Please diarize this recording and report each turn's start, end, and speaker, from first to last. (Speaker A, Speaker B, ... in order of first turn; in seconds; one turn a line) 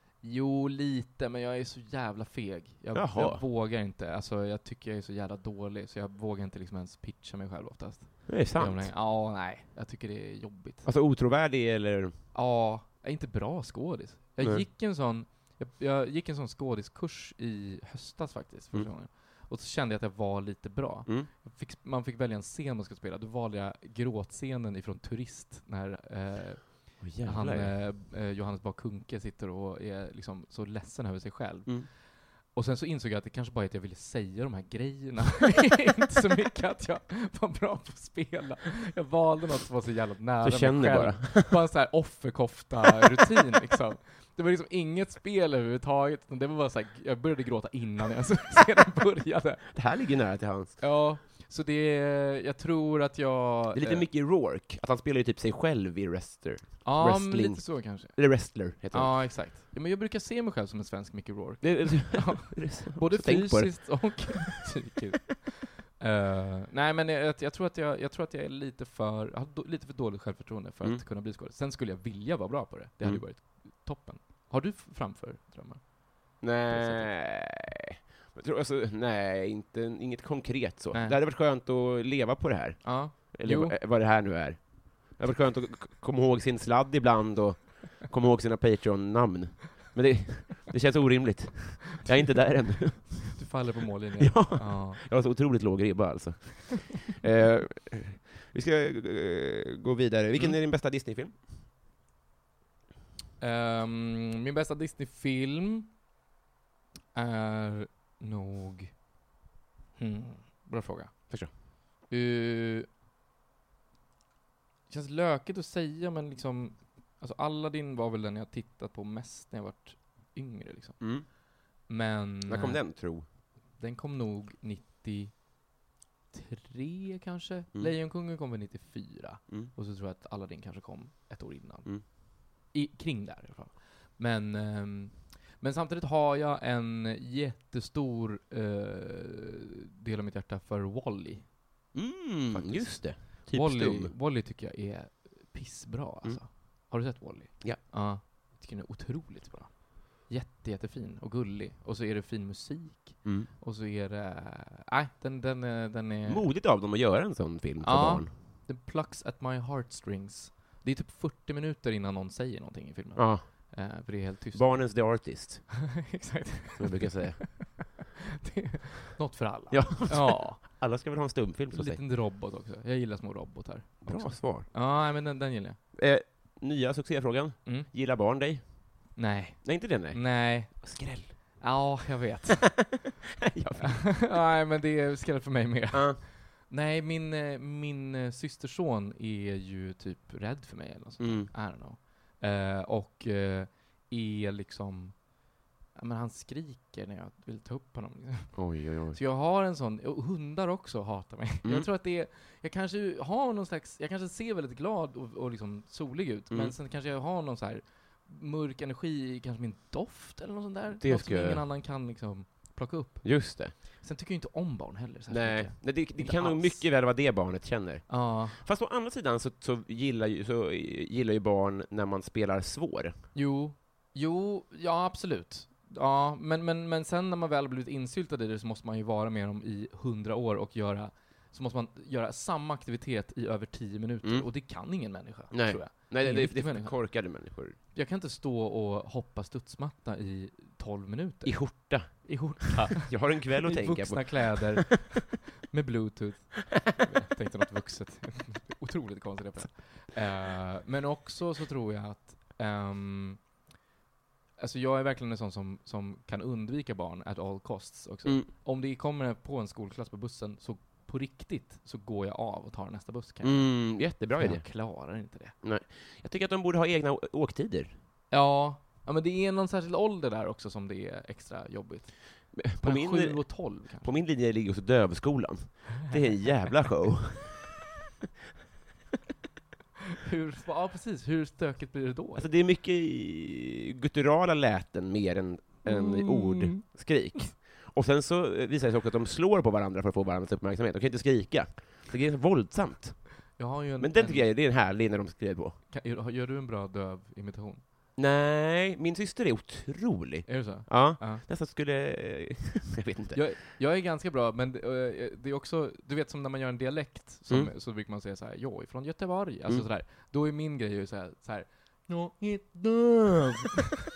Speaker A: 0.2-10.9
Speaker B: 2.9-3.5
Speaker B: 8.3-8.9
Speaker B: 10.8-12.2
Speaker A: 12.3-49.9
Speaker B: 14.4-14.7
Speaker B: 27.0-27.8
Speaker B: 40.4-41.7
Speaker B: 49.7-50.8
Speaker A: 50.8-54.1
Speaker B: 53.7-59.4
Speaker A: 56.8-77.1
Speaker B: 61.6-64.6
Speaker B: 76.4-93.5
Speaker A: 80.9-81.2
Speaker A: 82.8-83.8
Speaker A: 93.3-95.0
Speaker B: 94.2-101.4
Speaker A: 103.4-106.0
Speaker A: 107.1-109.1
Speaker A: 110.0-112.9
Speaker A: 114.9-125.8
Speaker B: 121.0-121.3
Speaker B: 122.5-123.3
Speaker A: 126.3-156.5
Speaker B: 141.9-144.1
Speaker B: 153.2-153.5
Speaker B: 156.3-158.3
Speaker A: 157.8-165.5
Speaker B: 163.2-165.9
Speaker A: 166.1-167.8
Speaker B: 166.8-167.9
Speaker A: 168.4-171.0
Speaker B: 169.7-172.0
Speaker A: 171.7-175.8
Speaker B: 174.0-174.7
Speaker B: 175.9-181.6
Speaker A: 179.2-183.0
Speaker B: 183.4-184.3
Speaker A: 183.8-216.9
Speaker B: 185.9-186.2
Speaker B: 191.2-191.5
Speaker B: 198.5-199.2
Speaker B: 201.6-201.9
Speaker B: 206.5-206.8
Speaker B: 210.9-211.6
Speaker B: 213.2-213.8
Speaker B: 215.3-223.2
Speaker A: 218.1-218.6
Speaker A: 223.3-253.5
Speaker B: 234.2-237.8
Speaker B: 241.4-244.9
Speaker A: 254.6-265.6
Speaker B: 263.4-268.0
Speaker A: 268.3-274.2
Speaker B: 272.5-277.6
Speaker A: 280.2-282.5
Speaker B: 282.4-295.8
Speaker A: 285.8-286.9
Speaker A: 293.6-294.5
Speaker A: 295.9-297.8
Speaker B: 298.2-303.5
Speaker A: 300.5-301.4
Speaker A: 303.3-313.8